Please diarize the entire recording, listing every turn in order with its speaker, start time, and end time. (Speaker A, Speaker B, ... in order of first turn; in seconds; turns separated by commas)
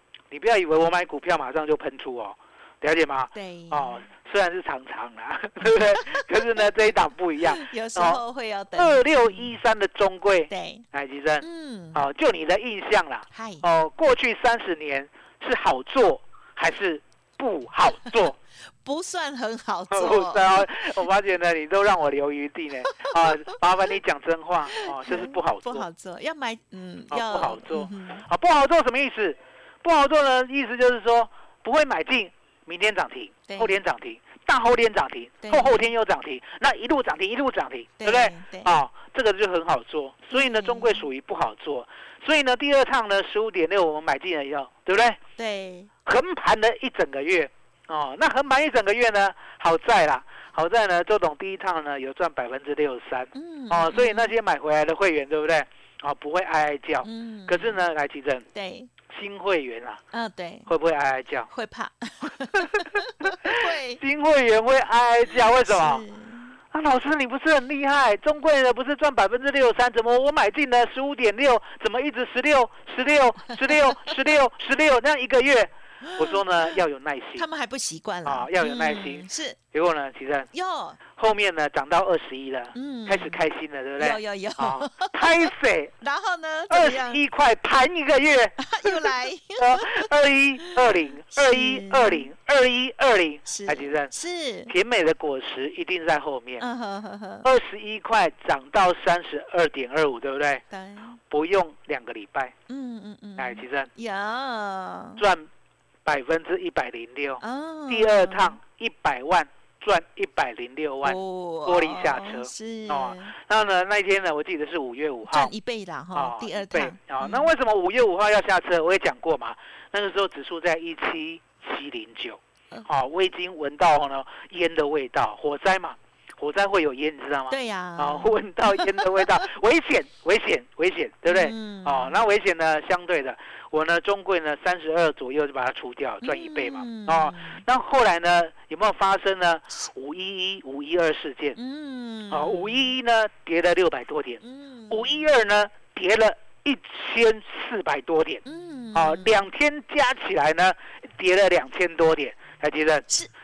Speaker A: 0.3-8.2, Speaker B: 3.3-4.1, Speaker B: 5.7-6.8, Speaker B: 7.4-9.5, Speaker A: 8.8-18.4, Speaker B: 10.5-10.8, Speaker B: 11.4-12.0, Speaker B: 13.3-13.7, Speaker B: 18.8-21.0, Speaker A: 19.9-25.9, Speaker B: 22.9-23.3, Speaker B: 24.8-28.2, Speaker A: 27.1-45.2, Speaker B: 33.5-33.8, Speaker B: 35.4-35.9, Speaker B: 38.0-38.8, Speaker B: 40.3-41.0, Speaker B: 45.4-45.9, Speaker A: 46.1-58.5, Speaker B: 53.3-54.3, Speaker B: 57.0-57.8, Speaker B: 58.5-58.9, Speaker A: 59.1-60.0, Speaker B: 60.1-60.7, Speaker A: 60.7-61.5, Speaker B: 61.5-64.0, Speaker A: 62.6-66.0, Speaker B: 65.3-66.5, Speaker A: 66.7-77.5, Speaker B: 73.6-74.2, Speaker B: 76.0-76.8, Speaker B: 77.4-79.6, Speaker A: 78.3-80.5, Speaker B: 80.5-81.0, Speaker A: 81.2-85.9, Speaker B: 82.7-83.4, Speaker B: 84.0-87.2, Speaker A: 86.7-94.1, Speaker B: 88.6-92.3, Speaker B: 93.5-94.7, Speaker A: 94.7-96.7, Speaker B: 96.6-97.5, Speaker A: 97.4-100.6, Speaker B: 100.7-101.2, Speaker A: 101.3-102.5, Speaker B: 102.7-105.2, Speaker A: 103.4-103.9, Speaker A: 105.2-105.5, Speaker A: 106.0-115.5, Speaker B: 107.4-108.6, Speaker B: 111.0-113.3, Speaker B: 115.3-117.5, Speaker A: 116.2-141.6, Speaker B: 127.5-129.4, Speaker B: 131.3-132.2, Speaker B: 136.2-137.6, Speaker B: 141.6-142.9, Speaker A: 142.3-148.4, Speaker B: 144.4-145.3, Speaker B: 148.4-149.3, Speaker A: 148.9-153.1